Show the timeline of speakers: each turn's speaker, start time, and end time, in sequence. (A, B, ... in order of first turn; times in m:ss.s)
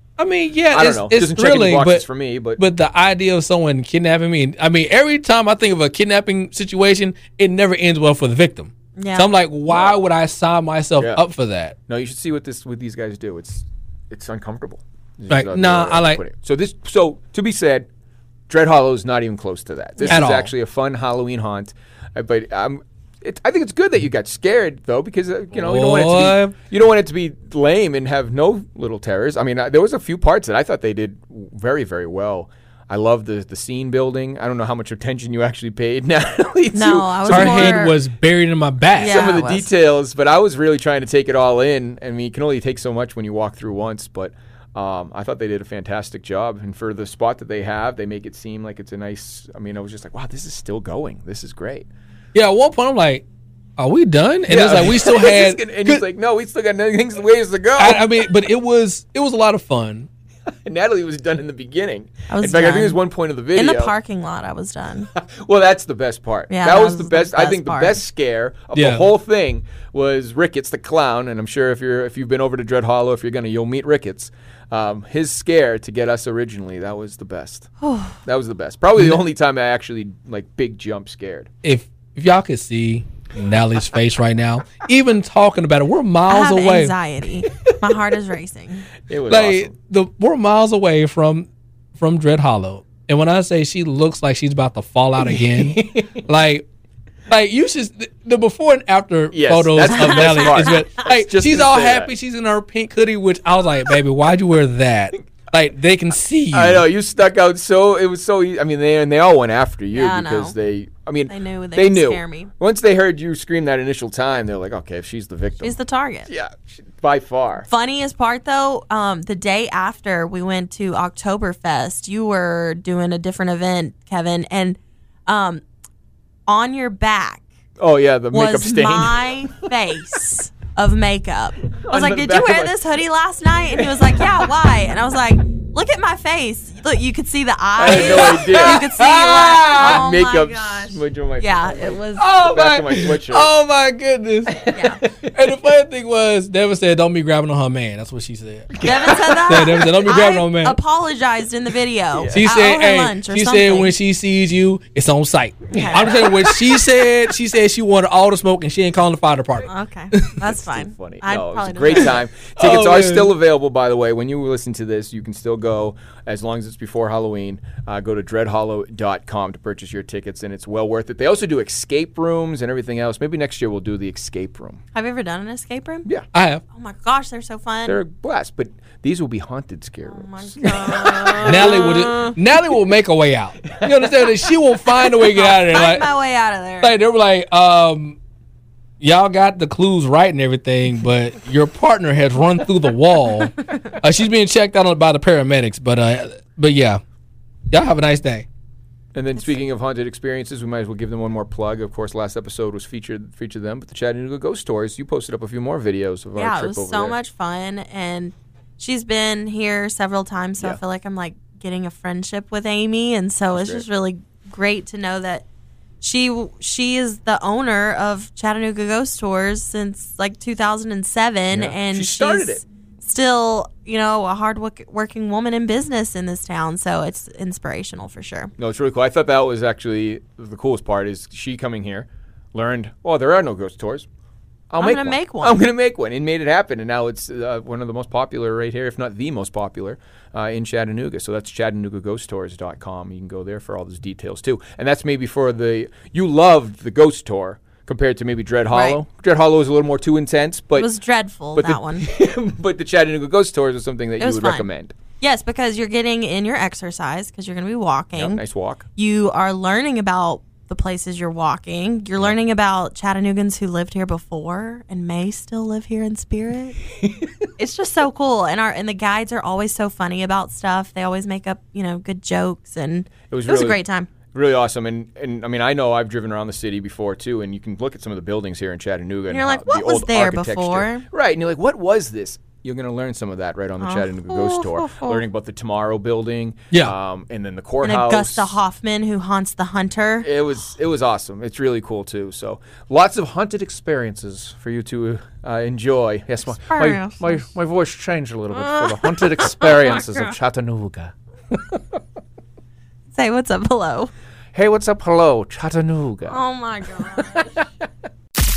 0:00.2-0:02.0 A
0:00.7-0:02.6 B
0:02.6-0:11.8 A
0:09.0-0:09.3 C
0:11.9-0:17.9 B
0:15.3-0:16.2 A
0:18.5-0:37.9 B
0:20.0-0:20.3 C
0:20.1-0:20.5 A
0:25.6-0:26.5 A
0:36.7-0:38.0 C
0:37.3-0:39.4 A
0:38.9-0:39.7 C
0:39.0-0:51.9 B
0:52.3-0:53.2 A
0:53.8-0:56.0 A
0:54.5-0:58.2 B
0:57.8-1:00.1 A
1:00.5-1:03.9 B
1:02.3-1:03.0 C
1:03.5-1:05.1 C
1:05.1-1:17.7 B
1:06.5-1:08.0 C
1:08.7-1:09.1 A
1:17.8-1:18.2 C
1:18.2-1:21.5 B
1:21.6-1:26.9 A
1:26.3-1:28.9 C
1:29.1-1:29.7 B
1:29.3-1:36.6 A
1:35.3-1:36.2 B
1:37.3-1:46.9 A
1:39.3-1:42.1 B
1:39.9-1:40.8 C
1:46.5-1:55.8 B
1:49.9-1:50.6 C
1:51.3-1:52.5 C
1:55.6-1:56.3 C
1:56.3-1:57.7 B
1:57.7-2:05.6 C
2:06.5-2:07.4 C
2:07.8-2:09.7 B
2:08.3-2:22.3 C
2:11.7-2:12.9 B
2:13.7-2:14.4 B
2:17.8-2:18.9 B
2:17.8-2:20.0 A
2:19.5-2:23.5 B
2:22.2-2:28.8 A
2:24.5-2:25.5 B
2:24.7-2:25.0 C
2:28.7-2:29.9 B
2:28.8-2:33.9 C
2:29.4-2:30.8 A
2:32.1-2:32.6 B
2:32.3-2:40.3 A
2:35.7-2:36.1 C
2:35.7-2:36.8 B
2:39.7-2:42.2 C
2:40.4-2:54.8 B
2:42.6-2:43.3 A
2:54.9-2:56.0 C
2:56.3-2:56.6 A
2:56.7-2:58.0 C
2:57.9-3:02.0 B
3:00.0-3:02.4 C
3:01.4-3:06.1 A
3:03.8-3:04.2 B
3:05.0-3:07.0 C
3:06.8-3:08.2 A
3:09.0-3:17.0 A
3:17.7-3:18.5 A
3:19.1-3:27.2 B
3:26.3-3:35.4 C
3:33.5-3:33.8 B
3:36.0-3:48.5 C
3:41.5-3:42.6 B
3:48.6-3:54.1 B
3:54.7-4:10.9 B
3:54.8-3:55.6 C
4:08.7-4:09.0 C
4:10.8-4:12.0 C
4:11.5-4:15.0 B
4:14.2-4:14.7 C
4:15.2-4:18.4 C
4:18.2-4:18.8 B
4:18.9-4:26.8 C
4:27.0-4:27.3 B
4:27.6-4:34.1 C
4:33.3-4:48.6 B
4:39.3-4:41.0 C
4:43.8-4:45.2 C
4:47.8-4:50.3 C
4:50.2-5:01.9 B
4:56.6-4:57.4 C
4:58.5-5:00.3 C
5:03.1-5:04.1 C
5:04.5-5:06.4 B
5:06.3-5:07.5 C
5:07.2-5:07.6 B